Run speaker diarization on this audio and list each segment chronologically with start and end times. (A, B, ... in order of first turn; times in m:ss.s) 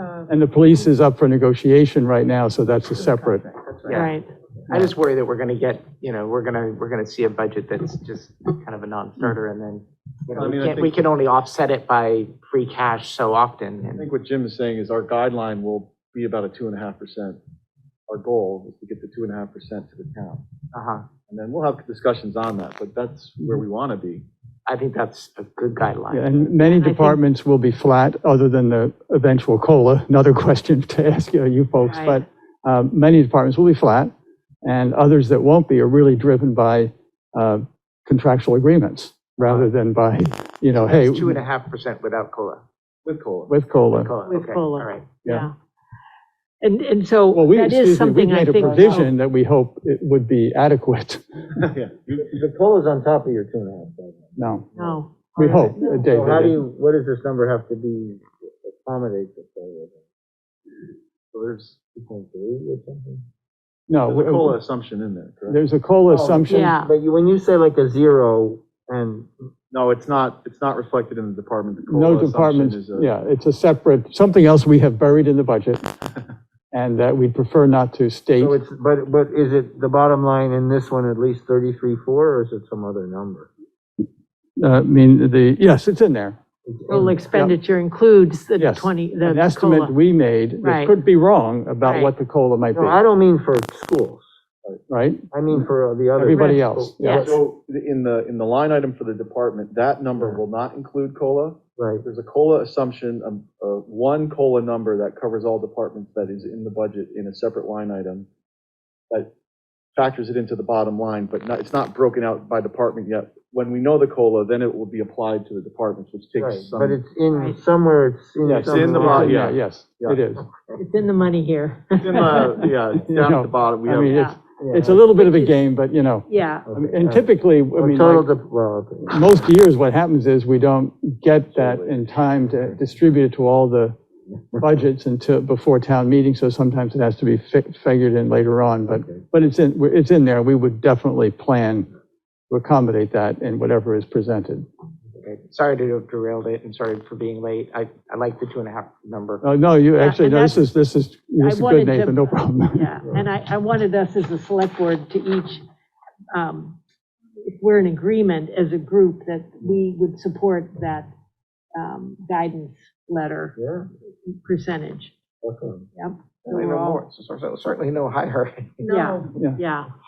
0:00.3-0:03.5 A
0:03.8-0:14.1 B
0:03.9-0:04.3 C
0:10.4-0:11.0 D
0:14.0-0:17.4 D
0:18.1-0:20.4 D
0:20.7-0:21.1 B
0:21.3-0:24.3 D
0:24.7-0:26.5 B
0:26.1-0:34.1 A
0:26.6-0:27.2 C
0:31.8-0:32.2 C
0:34.6-0:41.4 A
0:39.4-0:39.7 B
0:40.8-0:42.6 B
0:43.0-0:43.5 D
0:43.5-0:44.1 A
0:43.9-0:45.1 B
0:44.3-0:45.5 C
0:46.6-0:49.1 C
0:47.3-0:51.2 A
0:51.6-0:52.3 D
0:52.1-0:55.0 E
0:54.4-0:54.7 A
0:54.8-0:56.1 C
0:55.4-0:56.6 A
0:56.0-1:00.0 E
1:01.3-1:01.8 D
1:01.8-1:03.2 E
1:03.9-1:04.6 A
1:04.0-1:05.6 D
1:05.5-1:06.8 A
1:06.1-1:09.5 E
1:06.5-1:06.9 C
1:09.7-1:13.1 D
1:11.9-1:15.8 A
1:16.7-1:18.6 A
1:18.4-1:23.5 E
1:24.6-1:26.4 A
1:26.7-1:27.1 E
1:26.9-1:29.9 C
1:26.9-1:27.6 A
1:28.6-1:33.0 A
1:30.6-1:31.0 C
1:31.8-1:32.1 C
1:32.7-1:34.3 E
1:34.9-1:35.6 A
1:35.3-1:37.4 E
1:36.2-1:37.3 A
1:37.0-1:37.3 C
1:37.2-1:48.3 D
1:40.2-1:40.4 E
1:41.8-1:42.0 E
1:50.0-1:57.0 D
1:56.4-1:59.4 E
1:57.3-1:57.6 C
1:58.4-2:00.2 D
1:58.5-2:00.4 A
2:00.7-2:02.5 C
2:02.0-2:04.3 D
2:02.6-2:08.3 A
2:04.0-2:04.4 C
2:04.6-2:05.1 E
2:05.1-2:05.6 C
2:06.3-2:06.7 C
2:06.7-2:09.3 E
2:09.1-2:14.0 A
2:11.5-2:12.8 D
2:14.6-2:21.9 A
2:22.5-2:24.7 A
2:25.2-2:29.5 B
2:29.4-2:33.0 A
2:30.0-2:30.7 C
2:31.4-2:35.6 C
2:36.3-2:36.8 C
2:37.4-2:41.1 C
2:41.7-2:43.6 C
2:43.6-2:43.9 E
2:44.3-2:45.1 C
2:45.4-2:45.9 E
2:46.0-2:47.0 C
2:46.5-2:49.2 B
2:48.8-2:49.9 C
2:49.4-2:49.6 A